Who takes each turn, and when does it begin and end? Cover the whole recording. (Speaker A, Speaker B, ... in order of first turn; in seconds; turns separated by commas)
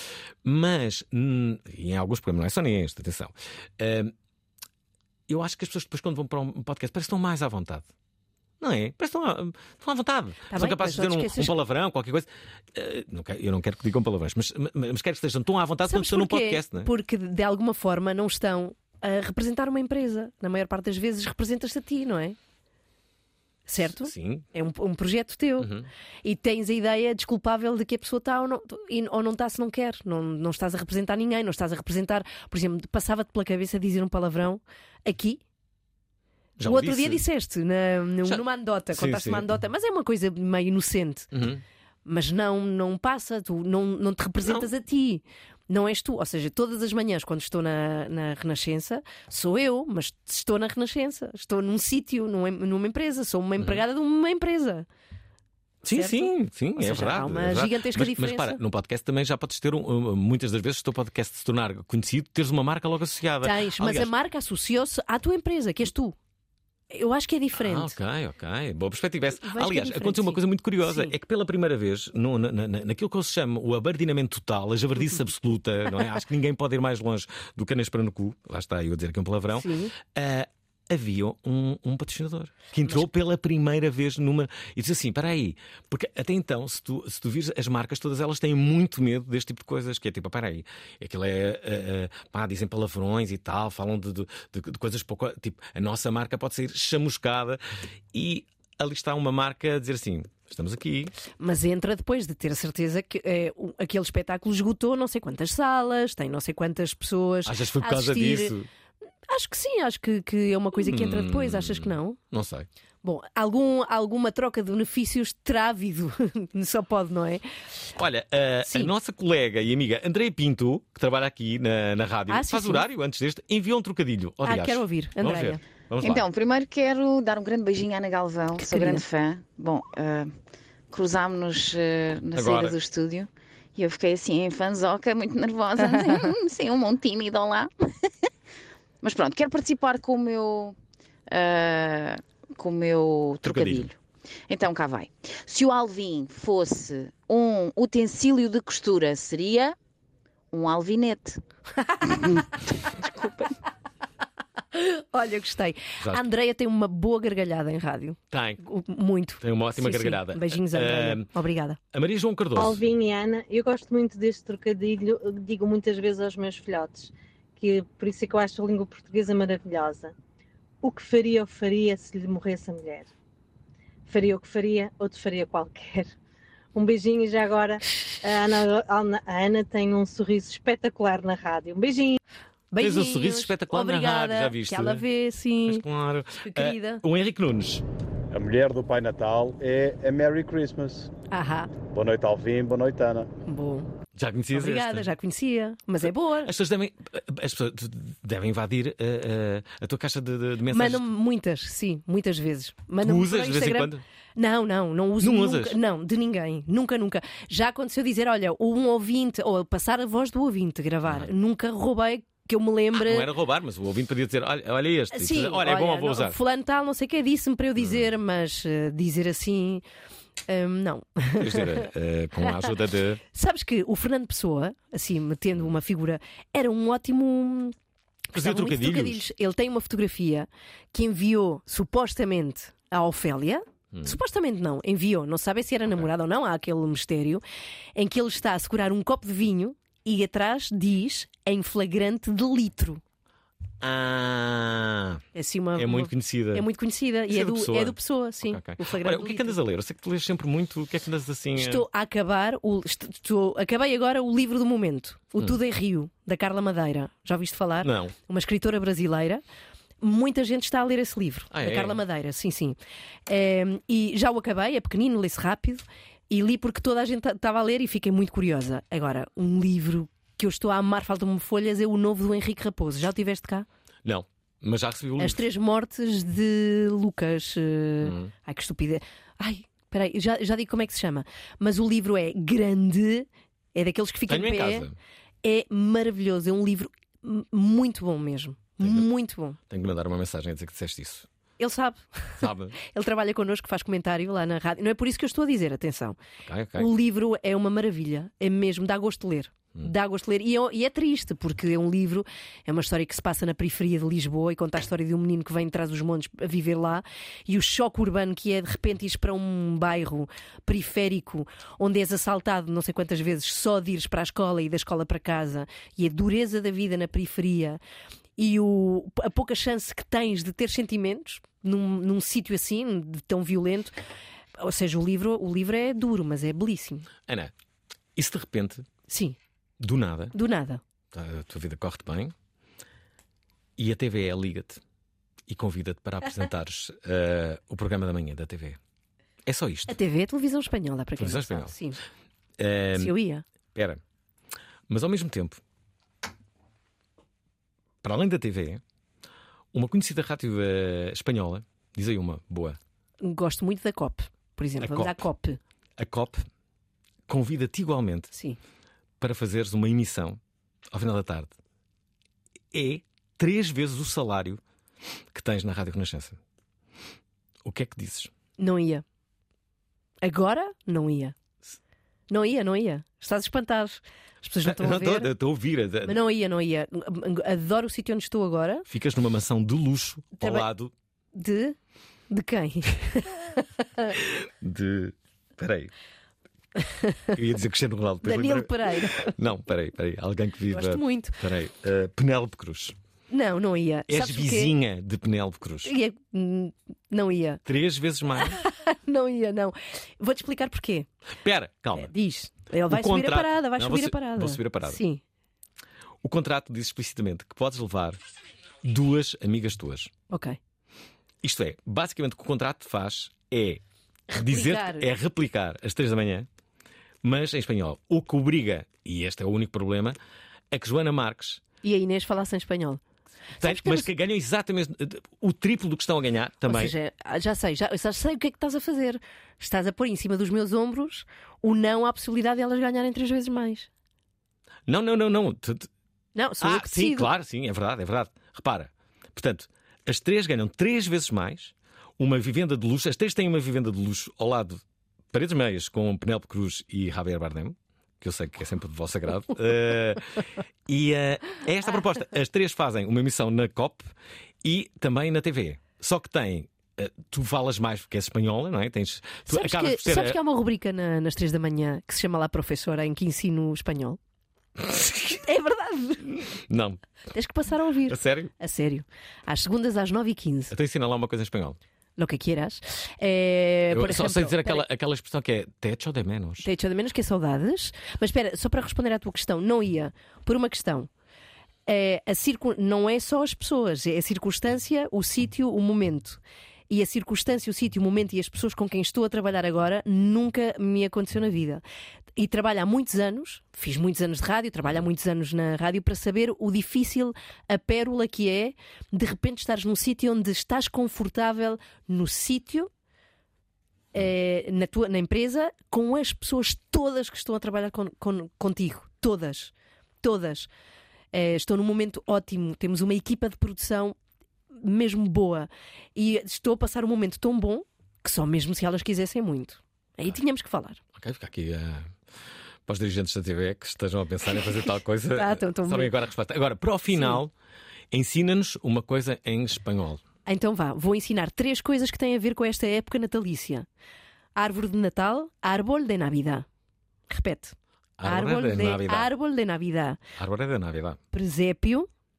Speaker A: 0.4-4.1, Speaker A: 5.3-7.9, Speaker A: 8.6-16.9, Speaker B: 10.5-11.6, Speaker B: 15.9-22.4, Speaker B: 23.7-25.7, Speaker A: 23.8-24.5, Speaker A: 25.6-25.9, Speaker B: 26.2-35.4, Speaker A: 36.6-37.2, Speaker B: 36.6-41.3, Speaker A: 38.2-39.5, Speaker A: 41.3-41.6, Speaker B: 42.1-54.9, Speaker A: 44.4-44.7, Speaker A: 55.8-64.1, Speaker B: 56.0-58.6, Speaker B: 63.4-66.2, Speaker B: 66.9-67.9, Speaker A: 67.5-97.6, Speaker B: 69.4-71.1, Speaker B: 79.5-79.9, Speaker A: 98.1-101.1, Speaker B: 101.4-108.5, Speaker A: 107.5-108.7, Speaker B: 109.3-112.2, Speaker A: 110.8-112.7, Speaker B: 113.0-117.4, Speaker A: 118.0-126.2, Speaker B: 122.3-122.8, Speaker B: 124.5-125.6, Speaker C: 126.0-130.3, Speaker B: 128.6-129.0, Speaker C: 130.9-137.7, Speaker A: 132.3-132.8, Speaker C: 139.0-140.8, Speaker C: 141.3-143.9, Speaker A: 143.4-143.9, Speaker C: 144.5-149.8, Speaker C: 150.5-151.4, Speaker B: 151.8-152.2, Speaker C: 153.0-153.4, Speaker B: 154.7-161.8, Speaker A: 158.3-158.6, Speaker A: 159.4-161.3, Speaker A: 161.9-162.8, Speaker D: 162.6-170.1, Speaker D: 170.8-173.1, Speaker D: 174.1-176.1, Speaker D: 176.7-182.2, Speaker B: 182.7-185.8, Speaker A: 182.8-185.1, Speaker A: 185.7-187.8, Speaker B: 186.4-187.0, Speaker E: 188.3-191.1, Speaker B: 191.3-191.7, Speaker E: 191.9-193.3, Speaker B: 193.5-193.9, Speaker A: 194.2-195.1, Speaker B: 194.5-196.5, Speaker A: 196.4-201.1, Speaker B: 200.7-213.3, Speaker A: 203.0-204.0, Speaker A: 205.2-205.8, Speaker A: 211.1-211.3, Speaker A: 212.9-216.4, Speaker B: 215.1-219.8, Speaker A: 217.8-218.1, Speaker B: 220.5-221.8, Speaker A: 221.4-223.2, Speaker B: 223.3-227.8, Speaker A: 228.3-229.2, Speaker B: 228.4-237.4, Speaker B: 237.9-243.0, Speaker A: 243.8-245.2, Speaker B: 245.3-249.6, Speaker A: 245.8-246.7, Speaker A: 247.3-251.9, Speaker B: 251.6-259.4, Speaker A: 257.8-258.1, Speaker B: 260.0-273.7, Speaker A: 261.5-262.0, Speaker A: 274.0-275.4, Speaker B: 275.2-284.9, Speaker A: 278.0-278.3, Speaker A: 284.3-284.9, Speaker B: 285.4-289.6, Speaker A: 288.8-289.1, Speaker A: 289.7-291.3, Speaker B: 291.6-296.2, Speaker A: 292.4-292.8, Speaker A: 296.4-296.9, Speaker B: 296.8-317.8, Speaker B: 318.4-323.9, Speaker B: 324.6-327.1, Speaker A: 327.3-327.5, Speaker A: 328.2-328.9, Speaker B: 329.1-329.4, Speaker A: 329.8-330.3, Speaker B: 330.3-330.8, Speaker A: 331.1-332.3, Speaker A: 333.8-334.8, Speaker A: 335.5-338.8, Speaker A: 339.4-339.9, Speaker B: 339.9-342.0, Speaker A: 341.2-341.7, Speaker A: 342.6-343.2, Speaker B: 343.0-343.4, Speaker A: 343.8-344.0, Speaker A: 344.9-345.6, Speaker A: 348.0-348.8, Speaker A: 349.7-352.8, Speaker B: 353.2-355.6, Speaker A: 354.8-355.3, Speaker A: 356.0-356.5, Speaker A: 357.3-358.3, Speaker B: 358.3-358.6, Speaker A: 359.2-360.4, Speaker A: 360.9-361.6, Speaker A: 362.7-364.6, Speaker A: 365.3-366.4, Speaker A: 367.6-368.3, Speaker B: 368.6-369.0, Speaker B: 370.2-371.4, Speaker B: 372.3-375.3, Speaker A: 374.6-376.2, Speaker B: 376.1-378.9, Speaker A: 378.9-380.9, Speaker B: 380.4-380.7, Speaker B: 381.3-381.8, Speaker B: 382.3-383.3, Speaker A: 384.2-385.9, Speaker B: 386.8-387.3, Speaker A: 387.3-393.0, Speaker B: 388.2-389.3, Speaker B: 390.7-391.4, Speaker B: 393.3-394.7, Speaker A: 394.1-395.9, Speaker B: 395.9-397.6, Speaker A: 397.6-398.6, Speaker B: 398.6-401.1, Speaker A: 401.4-402.1, Speaker B: 402.0-405.2, Speaker A: 402.9-405.0, Speaker A: 406.2-408.2, Speaker A: 408.8-410.1, Speaker B: 410.3-410.6, Speaker A: 411.4-413.8, Speaker B: 414.3-415.1, Speaker A: 414.4-416.5, Speaker A: 417.2-420.2, Speaker A: 420.7-421.6, Speaker B: 421.8-423.0, Speaker B: 423.6-424.1, Speaker A: 423.6-426.9, Speaker B: 426.7-433.9, Speaker A: 434.9-435.9, Speaker B: 436.4-437.3, Speaker A: 436.6-444.8, Speaker A: 445.3-454.1, Speaker A: 454.6-460.4, Speaker B: 459.5-464.2, Speaker A: 464.8-465.4, Speaker B: 465.4-466.3, Speaker A: 466.2-467.0, Speaker B: 467.3-470.7, Speaker A: 468.1-468.5, Speaker A: 470.7-471.8, Speaker B: 472.2-474.9, Speaker A: 473.9-476.7, Speaker B: 476.6-481.1, Speaker B: 481.9-491.8, Speaker B: 492.4-502.9, Speaker B: 504.1-509.7, Speaker B: 510.2-510.7, Speaker B: 511.3-514.1, Speaker B: 514.8-521.0, Speaker A: 521.1-522.1, Speaker A: 522.9-527.5, Speaker B: 524.6-526.2, Speaker B: 527.1-527.4, Speaker A: 528.1-530.2, Speaker B: 530.5-533.9, Speaker B: 534.6-536.7, Speaker B: 537.3-540.2, Speaker A: 538.2-539.3, Speaker A: 540.4-541.2, Speaker B: 541.3-542.1